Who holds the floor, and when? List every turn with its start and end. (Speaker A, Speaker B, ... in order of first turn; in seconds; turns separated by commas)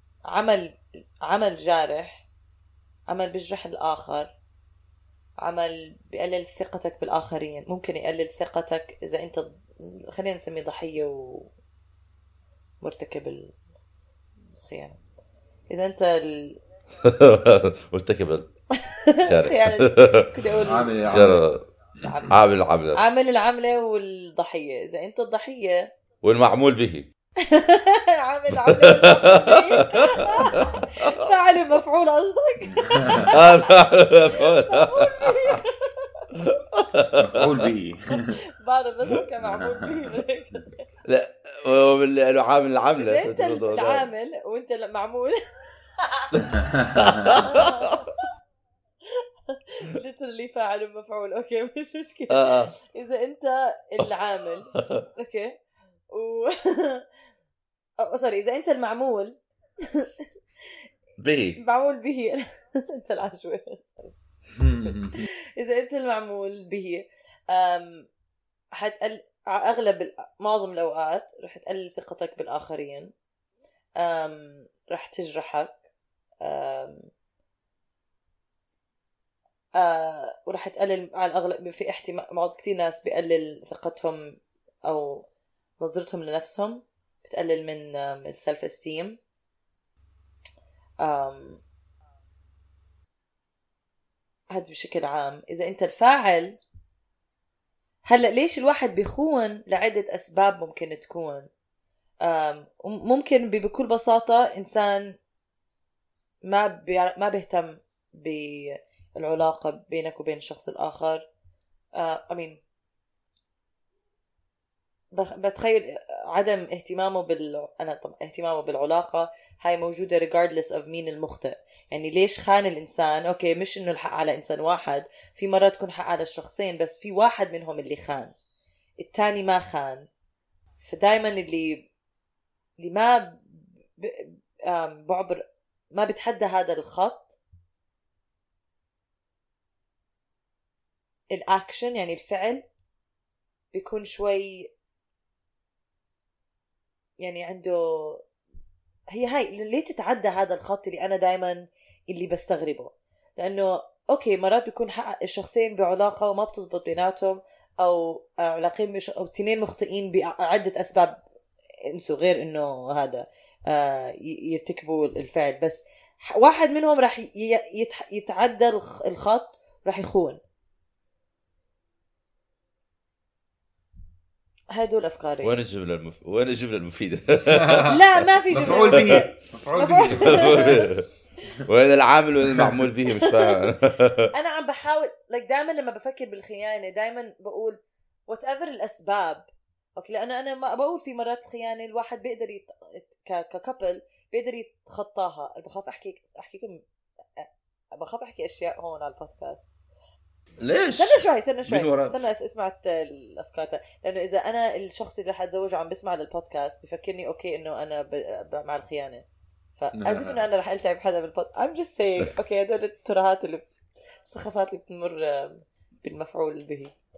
Speaker A: 0.3-2.2, Speaker A: 3.1-4.3, Speaker A: 5.4-11.5, Speaker A: 12.8-13.5, Speaker A: 14.5-15.0, Speaker A: 15.7-16.6, Speaker B: 17.0-18.5, Speaker A: 18.8-21.4, Speaker B: 19.2-20.4, Speaker C: 20.6-21.4, Speaker B: 21.0-21.6, Speaker A: 22.0-22.4, Speaker B: 22.3-23.0, Speaker A: 22.9-25.9, Speaker B: 26.2-27.1, Speaker A: 27.4-36.2, Speaker B: 28.5-31.2, Speaker C: 32.7-33.4, Speaker B: 33.3-35.6, Speaker B: 36.3-37.7, Speaker C: 37.1-38.4, Speaker A: 38.6-40.8, Speaker B: 41.0-44.1, Speaker A: 43.0-45.4, Speaker A: 46.0-46.4, Speaker B: 46.3-47.9, Speaker C: 46.6-47.2, Speaker A: 47.4-48.1, Speaker A: 49.5-55.6, Speaker B: 52.3-52.7, Speaker B: 54.8-55.0, Speaker A: 56.1-57.0, Speaker A: 58.0-60.1, Speaker B: 61.2-61.6, Speaker A: 61.6-68.1, Speaker C: 64.5-65.2, Speaker A: 68.7-73.1, Speaker A: 74.0-75.8, Speaker A: 76.4-77.1, Speaker A: 79.8-85.3, Speaker A: 85.8-89.2, Speaker A: 91.0-91.6, Speaker A: 94.5-96.6, Speaker A: 98.0-101.5, Speaker A: 102.2-105.2, Speaker A: 106.4-111.2, Speaker A: 112.0-112.6, Speaker A: 115.1-128.3, Speaker A: 129.0-130.1, Speaker A: 130.8-131.9, Speaker A: 132.8-137.4, Speaker A: 141.3-142.6, Speaker A: 143.7-144.7, Speaker A: 147.2-148.2, Speaker A: 149.1-161.2, Speaker A: 161.9-170.4, Speaker A: 174.7-175.6, Speaker B: 175.4-179.3, Speaker C: 177.4-177.9, Speaker A: 177.9-180.9, Speaker C: 178.5-180.8, Speaker B: 180.1-181.1, Speaker B: 181.7-184.3, Speaker A: 183.2-183.5, Speaker A: 184.3-196.8, Speaker A: 197.4-199.7, Speaker B: 200.6-202.2, Speaker A: 200.9-209.2, Speaker A: 209.8-213.7, Speaker C: 209.9-210.4, Speaker A: 214.2-216.9